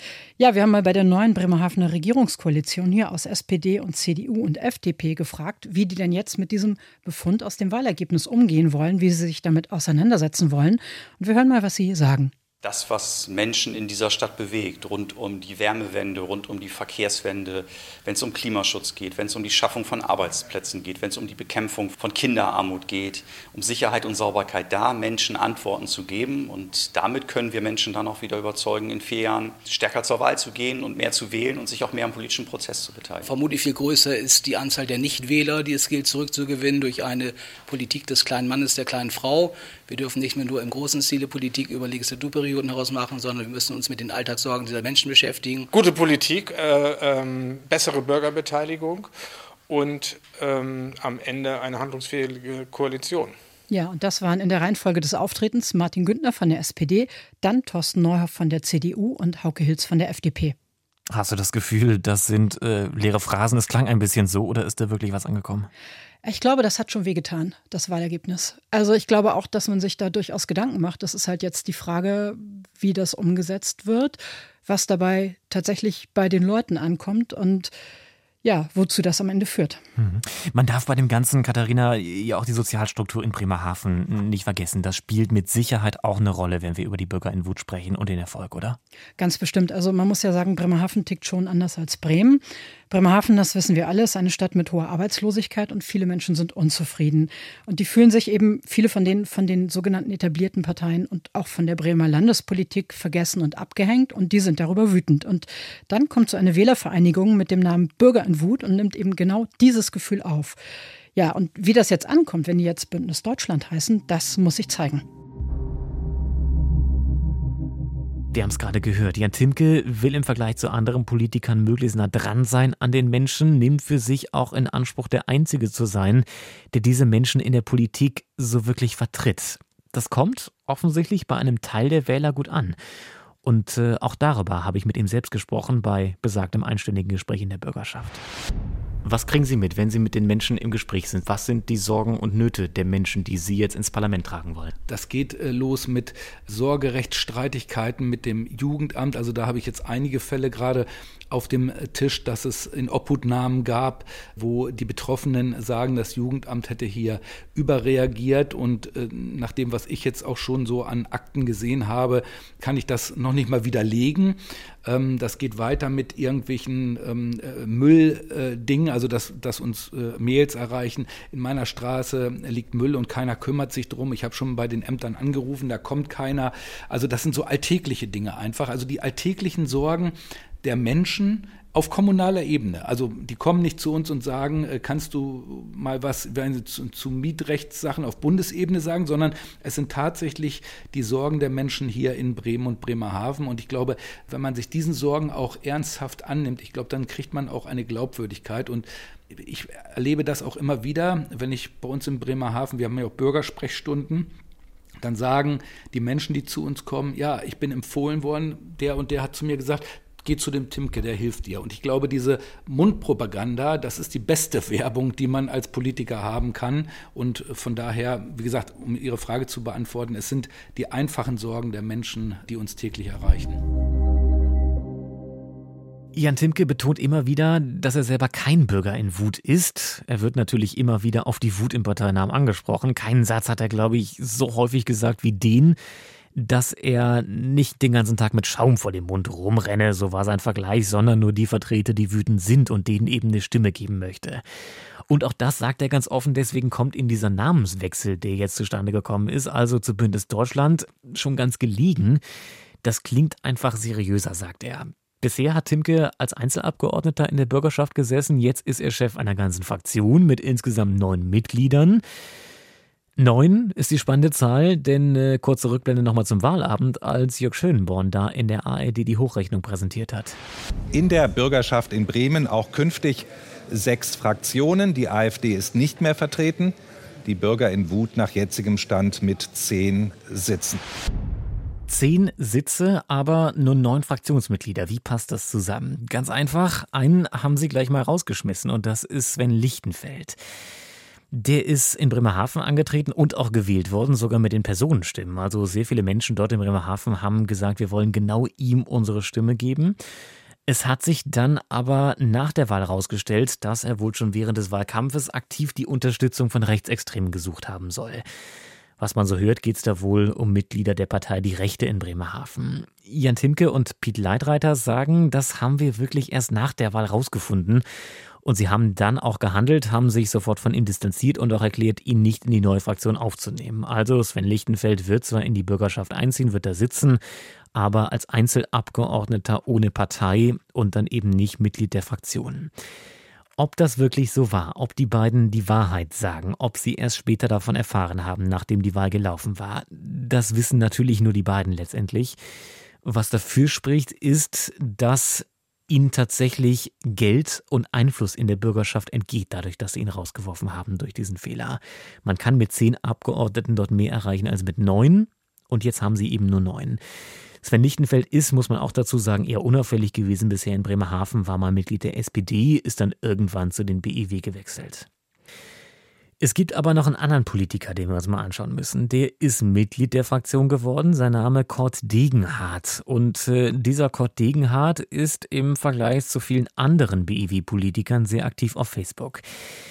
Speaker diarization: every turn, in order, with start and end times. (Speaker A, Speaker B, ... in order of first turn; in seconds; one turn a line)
Speaker A: 0.4-12.3
Speaker B: 12.6-33.3
Speaker C: 33.2-45.7
Speaker D: 45.7-49.0
Speaker D: 49.7-53.3
Speaker A: 53.7-60.5
Speaker E: 61.1-65.7
Speaker A: 66.2-77.7
Speaker A: 78.4-79.8
Speaker E: 80.0-88.8
Speaker A: 89.2-110.6
Speaker A: 111.1-115.0
Speaker E: 118.3-132.8
Speaker E: 133.4-138.2
Speaker E: 139.0-144.7
Speaker F: 144.9-204.3
Speaker F: 205.0-223.6
Speaker E: 226.1-235.8
Speaker E: 236.3-244.4
Speaker E: 245.1-252.2
Speaker E: 252.8-262.0
Speaker E: 263.2-270.4
Speaker G: 270.9-280.8
Speaker E: 281.9-290.4
Speaker E: 291.3-300.0
Speaker E: 300.7-308.2
Speaker E: 309.0-317.8
Speaker E: 318.4-327.2
Speaker E: 327.7-332.7
Speaker E: 333.6-342.4
Speaker E: 343.0-357.0
Speaker E: 357.6-365.1
Speaker E: 366.4-379.4